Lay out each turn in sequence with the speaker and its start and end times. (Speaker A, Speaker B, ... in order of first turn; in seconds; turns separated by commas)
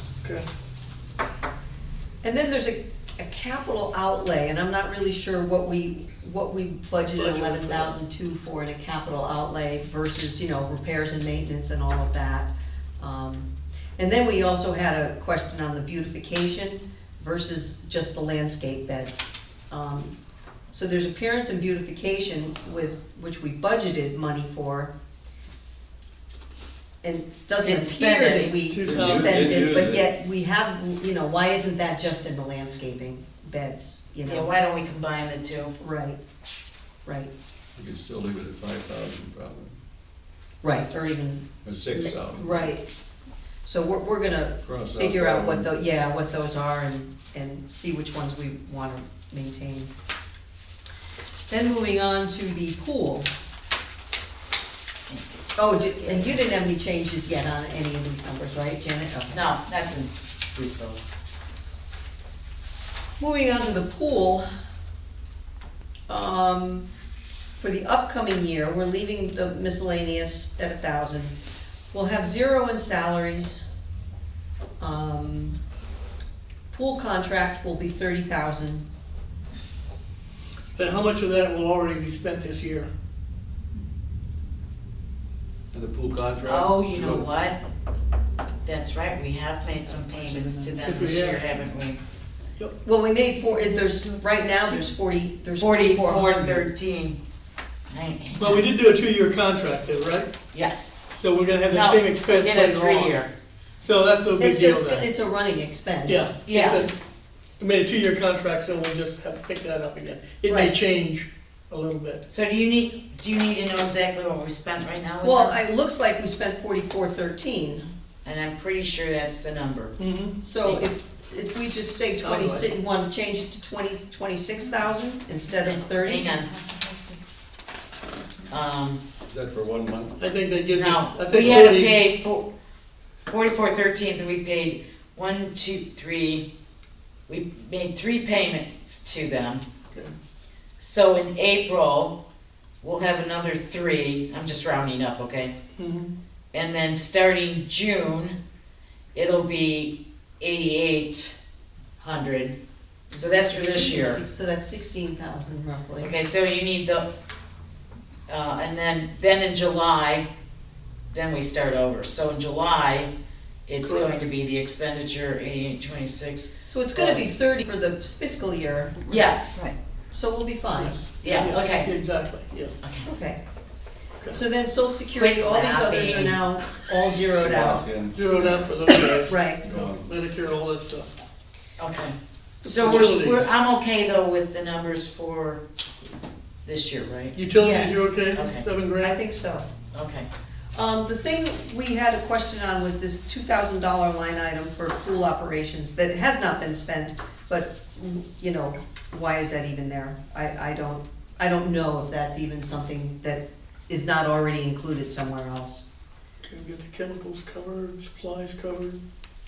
Speaker A: 2.2-20.1, Speaker B: 7.2-8.0, Speaker A: 20.7-24.9, Speaker A: 27.0-34.5, Speaker C: 27.6-28.6, Speaker B: 28.7-29.7, Speaker D: 28.8-30.0, Speaker C: 34.2-35.7, Speaker A: 35.8-36.2, Speaker A: 37.0-37.3, Speaker D: 37.8-39.7, Speaker A: 40.6-42.9, Speaker D: 41.6-42.7, Speaker A: 43.6-49.9, Speaker D: 44.6-45.7, Speaker A: 51.5-53.3, Speaker C: 55.1-56.4, Speaker A: 55.6-59.5, Speaker C: 59.3-61.0, Speaker A: 63.2-64.5, Speaker A: 66.1-66.9, Speaker A: 67.6-71.3, Speaker A: 71.9-73.6, Speaker A: 74.8-75.6, Speaker A: 76.7-78.8, Speaker B: 80.8-82.9, Speaker D: 85.7-87.3, Speaker C: 86.5-87.6, Speaker C: 88.6-92.0, Speaker B: 90.8-91.5, Speaker A: 92.8-96.7, Speaker C: 95.6-97.2, Speaker C: 97.9-98.7, Speaker B: 98.4-100.3, Speaker C: 100.5-101.0, Speaker B: 101.2-103.2, Speaker C: 101.7-103.3, Speaker B: 103.8-105.1, Speaker A: 104.4-106.7, Speaker B: 106.1-106.9, Speaker C: 106.5-106.9, Speaker B: 107.6-112.2, Speaker A: 110.5-110.8, Speaker C: 112.3-115.6, Speaker A: 115.2-117.9, Speaker C: 118.2-119.9, Speaker B: 120.0-120.4, Speaker A: 120.4-126.3, Speaker B: 122.2-122.7, Speaker C: 125.7-126.5, Speaker C: 128.5-129.0, Speaker D: 129.3-130.2, Speaker B: 130.2-132.0, Speaker C: 130.7-132.5, Speaker C: 133.3-136.5, Speaker C: 137.3-139.6, Speaker C: 140.8-142.2, Speaker C: 142.8-145.5, Speaker B: 145.8-146.1, Speaker C: 146.5-148.4, Speaker C: 149.1-151.4, Speaker C: 152.0-152.6, Speaker C: 153.1-154.2, Speaker A: 153.4-156.1, Speaker C: 156.0-157.1, Speaker C: 158.3-160.3, Speaker C: 161.1-163.1, Speaker C: 163.7-167.3, Speaker B: 163.9-164.1, Speaker A: 166.7-169.4, Speaker C: 169.1-169.7, Speaker A: 170.1-171.0, Speaker B: 170.7-172.7, Speaker C: 171.2-171.9, Speaker C: 172.8-173.1, Speaker A: 173.0-173.4, Speaker A: 174.3-177.9, Speaker C: 175.2-176.4, Speaker D: 177.4-178.4, Speaker B: 178.1-181.1, Speaker A: 179.2-179.7, Speaker D: 179.7-180.1, Speaker C: 181.8-185.6, Speaker B: 182.6-183.4, Speaker C: 186.7-187.3, Speaker B: 187.3-189.2, Speaker A: 187.6-188.2, Speaker C: 188.3-188.7, Speaker A: 189.0-189.7, Speaker C: 189.9-190.3, Speaker A: 190.7-205.8, Speaker B: 206.4-209.0